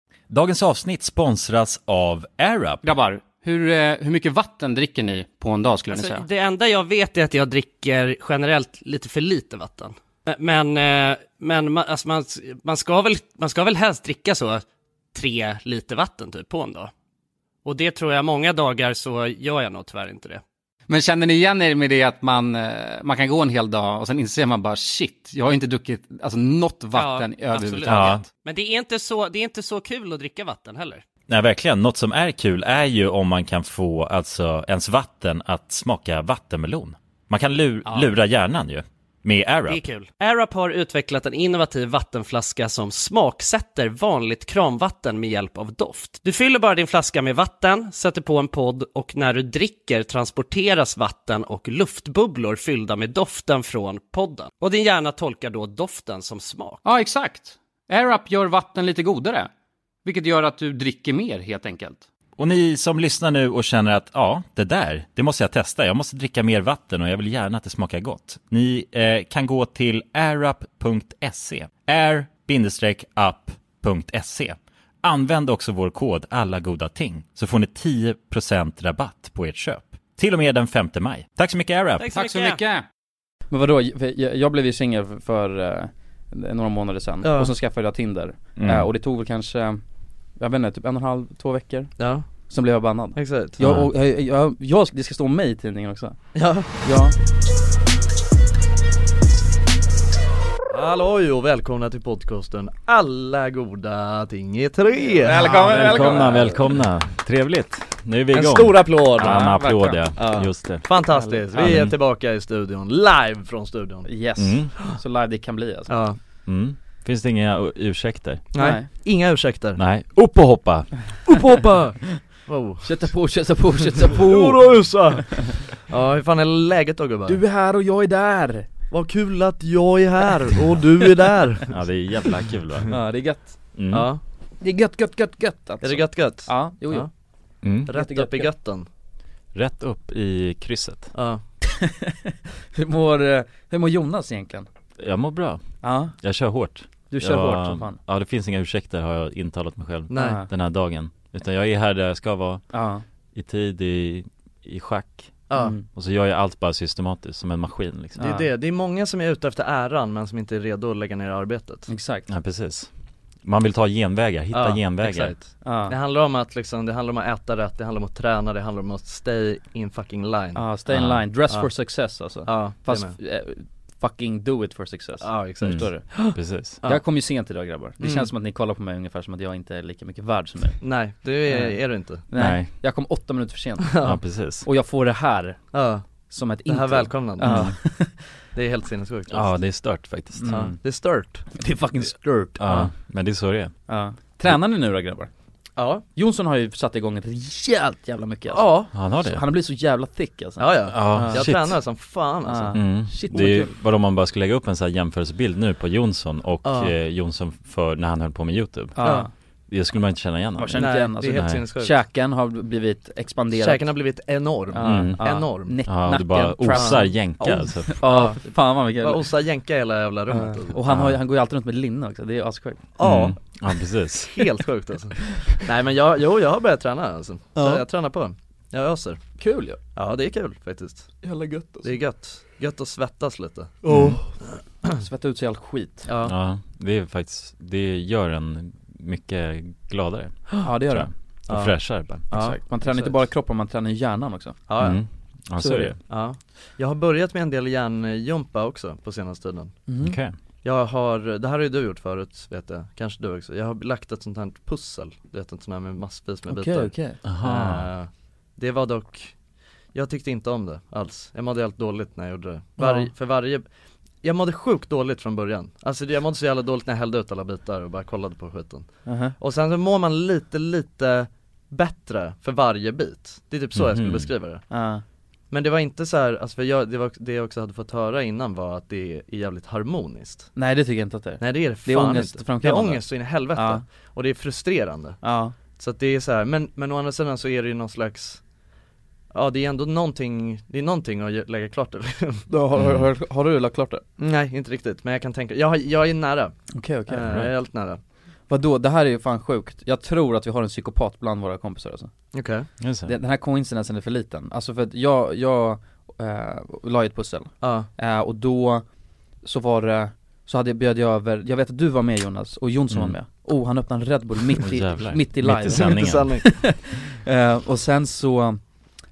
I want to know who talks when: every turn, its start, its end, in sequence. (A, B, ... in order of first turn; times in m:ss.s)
0:00.3-0:02.8 A
0:02.8-0:06.3 B
0:05.9-0:14.6 C
0:15.2-0:16.9 C
0:17.6-0:20.4 C
0:20.9-0:28.3 B
0:27.0-0:31.0 C
0:27.8-0:28.2 A
0:31.3-0:39.9 A
0:39.7-0:56.8 C
0:56.8-0:59.5 B
1:00.0-1:02.0 B
1:02.4-1:22.1 A
1:22.0-1:22.8 B
1:22.0-1:22.6 C
1:23.5-1:29.8 D
1:27.2-1:27.5 E
1:30.4-1:37.2 D
1:32.0-1:32.3 E
1:33.2-1:33.6 E
1:33.6-1:33.9 F
1:36.4-1:36.7 E
1:40.7-1:45.6 E
1:45.2-1:46.5 B
1:45.3-1:46.5 D
1:45.6-1:50.9 F
1:48.3-1:49.4 E
1:48.8-1:49.1 C
1:49.2-1:50.1 D
1:50.2-1:54.2 E
1:51.1-1:51.8 D
1:51.6-1:52.0 F
1:54.1-1:56.0 D
1:54.4-1:54.7 F
1:55.9-1:56.2 E
1:56.4-1:58.4 F
1:58.5-1:58.9 D
1:58.5-1:59.8 E
1:59.8-2:01.2 F
2:01.3-2:03.2 E
2:02.8-2:05.4 D
2:04.0-2:07.4 E
2:07.3-2:08.7 D
2:08.9-2:11.7 E
2:11.7-2:13.0 F
2:12.9-2:13.6 D
2:13.8-2:14.1 F
2:13.9-2:14.2 E
2:14.6-2:17.1 D
2:15.8-2:17.1 E
2:17.6-2:17.9 F
2:17.9-2:18.9 E
2:17.9-2:18.5 D
2:19.5-2:21.1 F
2:21.2-2:21.4 E
2:21.6-2:24.7 D
2:25.0-2:32.6 F
2:25.8-2:26.2 D
2:27.1-2:28.0 D
2:30.1-2:30.4 E
2:30.1-2:30.5 D
2:32.7-2:33.0 D
2:33.3-2:38.3 F
2:35.5-2:35.8 E
2:35.6-2:35.8 D
2:38.2-2:38.5 D
2:38.2-2:41.9 E
2:41.9-2:42.3 D
2:42.3-2:42.9 F
2:43.4-2:45.4 F
2:44.5-2:50.6 E
2:45.6-2:46.0 D
2:50.6-3:05.7 D
2:50.9-2:51.3 F
2:52.5-2:53.2 E
2:55.2-2:56.3 E
2:55.6-2:56.8 F
2:58.0-2:58.3 E
3:00.8-3:02.3 E
3:02.4-3:02.8 F
3:04.0-3:04.7 F
3:05.7-3:06.1 E
3:06.3-3:08.2 D
3:06.7-3:07.9 E
3:07.4-3:07.8 F
3:08.5-3:09.6 E
3:09.3-3:10.8 F
3:10.4-3:10.8 D
3:10.5-3:11.5 E
3:11.6-3:12.9 D
3:12.6-3:13.7 F
3:13.9-3:15.3 D
3:15.8-3:16.0 E
3:16.2-3:21.5 D
3:18.5-3:18.9 E
3:18.9-3:19.4 F
3:20.6-3:22.8 E
3:20.9-3:21.8 F
3:22.5-3:23.8 D
3:22.7-3:31.6 F
3:26.6-3:26.9 E
3:29.0-3:29.3 D
3:29.0-3:29.3 E
3:30.6-3:39.4 D
3:30.8-3:32.0 E
3:33.5-3:35.8 E
3:34.8-3:38.1 F
3:36.7-3:40.8 E
3:40.3-3:42.8 D
3:40.9-3:41.2 F
3:43.0-3:49.2 E
3:43.0-3:44.4 F
3:47.6-3:47.8 D
3:49.4-3:49.8 D
3:50.0-3:51.1 E
3:51.2-3:52.0 D
3:51.8-3:54.3 E
3:53.9-3:54.2 F
3:54.8-3:56.1 D
3:56.2-4:02.3 F
4:00.6-4:01.1 D
4:01.5-4:03.2 E
4:02.3-4:04.6 D
4:04.7-4:05.0 E
4:04.8-4:06.0 F
4:05.6-4:05.9 D
4:06.1-4:09.9 E
4:09.9-4:10.2 D
4:10.0-4:10.4 F
4:10.6-4:19.4 E
4:16.5-4:17.2 D
4:17.2-4:17.9 F
4:19.9-4:23.7 E
4:22.8-4:23.1 D
4:24.2-4:34.7 E
4:29.1-4:29.4 D
4:33.7-4:34.3 F
4:34.7-4:35.0 D
4:35.5-4:40.5 E
4:40.6-4:43.8 D
4:41.4-4:45.2 E
4:45.2-4:45.6 D
4:45.8-4:48.4 E
4:49.3-4:52.4 E
4:52.5-4:54.0 D
4:52.8-4:53.1 F
4:54.2-4:58.0 E
4:56.7-4:57.3 D
4:57.2-4:57.5 F
4:58.5-5:02.1 D
5:02.3-5:02.7 E
5:02.8-5:03.2 F
5:03.0-5:08.9 D
5:07.6-5:07.9 E
5:09.4-5:18.6 D
5:12.9-5:13.2 F
5:14.6-5:16.5 F
5:15.7-5:16.5 E